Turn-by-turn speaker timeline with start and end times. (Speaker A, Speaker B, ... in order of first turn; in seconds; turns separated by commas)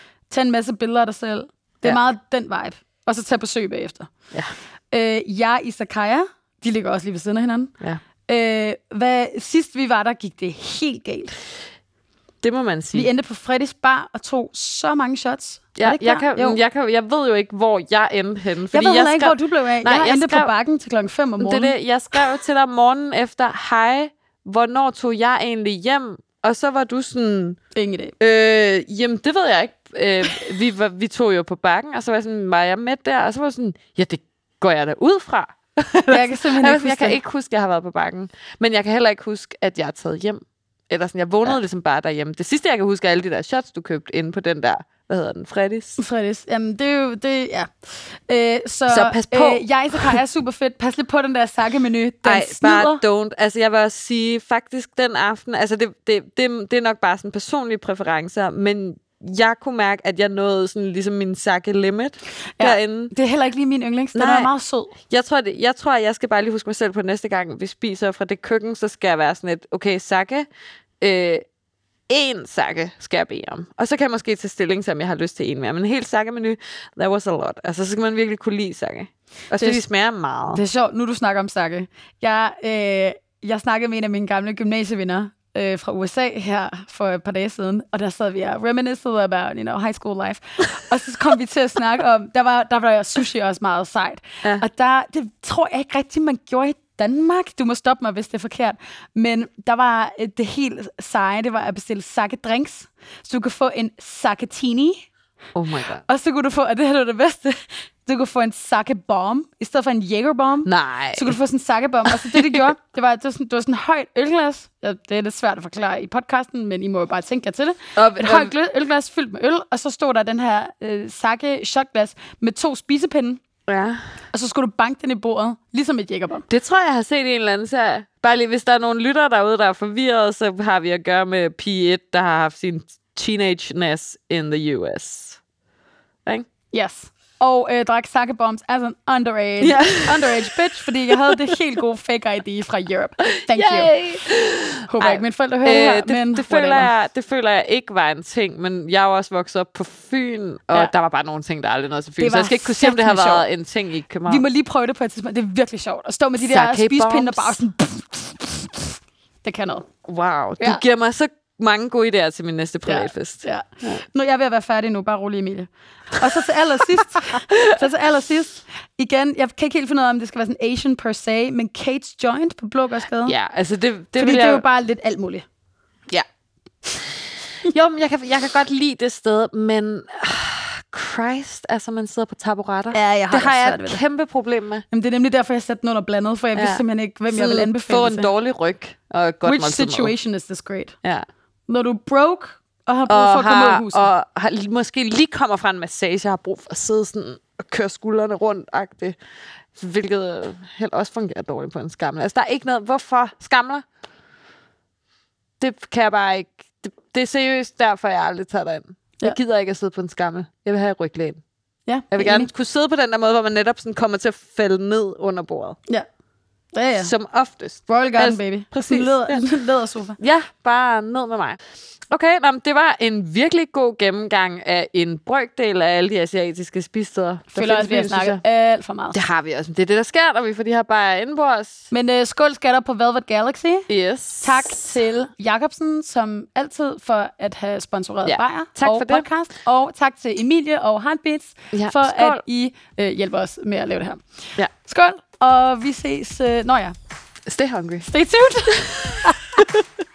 Speaker A: 0.3-4.1, Speaker A: 4.9-7.7, Speaker A: 8.3-11.4, Speaker B: 12.4-13.1, Speaker A: 12.9-16.6, Speaker B: 15.8-20.5, Speaker A: 18.7-21.7, Speaker B: 21.4-27.6, Speaker A: 27.7-28.1, Speaker B: 28.2-46.0, Speaker A: 36.1-37.2, Speaker A: 46.0-47.7, Speaker A: 48.3-53.0, Speaker B: 48.9-50.2, Speaker B: 52.2-63.1, Speaker A: 62.6-64.9, Speaker B: 64.1-64.5, Speaker B: 65.1-70.5, Speaker B: 71.0-71.4, Speaker B: 72.1-80.6, Speaker A: 79.5-79.8, Speaker A: 80.5-105.1, Speaker B: 105.5-106.0, Speaker A: 106.0-123.4, Speaker B: 110.6-111.3, Speaker B: 112.1-112.7, Speaker B: 118.0-118.5, Speaker B: 123.7-124.0, Speaker A: 124.3-126.5, Speaker B: 126.5-135.4, Speaker A: 136.7-143.9, Speaker B: 139.6-141.3, Speaker B: 143.2-154.4, Speaker A: 144.9-146.9, Speaker A: 152.2-153.5, Speaker A: 154.3-158.9, Speaker B: 156.4-157.6, Speaker A: 159.4-159.9, Speaker B: 160.0-164.0, Speaker A: 162.8-173.3, Speaker B: 166.9-167.7, Speaker B: 173.2-174.6, Speaker A: 174.2-175.4, Speaker B: 176.9-184.8, Speaker A: 182.9-184.0, Speaker A: 184.9-188.3, Speaker B: 186.5-190.1, Speaker A: 189.4-190.9, Speaker A: 191.7-194.1, Speaker B: 193.1-199.2, Speaker B: 199.7-203.8, Speaker B: 205.6-211.4, Speaker A: 211.9-212.5, Speaker B: 212.1-215.8, Speaker A: 216.7-217.1, Speaker B: 217.0-219.5, Speaker A: 217.9-220.2, Speaker B: 220.2-221.6, Speaker B: 222.1-228.4, Speaker A: 227.5-229.2, Speaker B: 229.1-231.9, Speaker A: 231.9-233.9, Speaker B: 233.9-234.9, Speaker A: 234.4-246.9, Speaker B: 238.2-239.2, Speaker B: 241.7-242.4, Speaker B: 247.5-248.1, Speaker A: 248.1-249.6, Speaker B: 249.3-249.8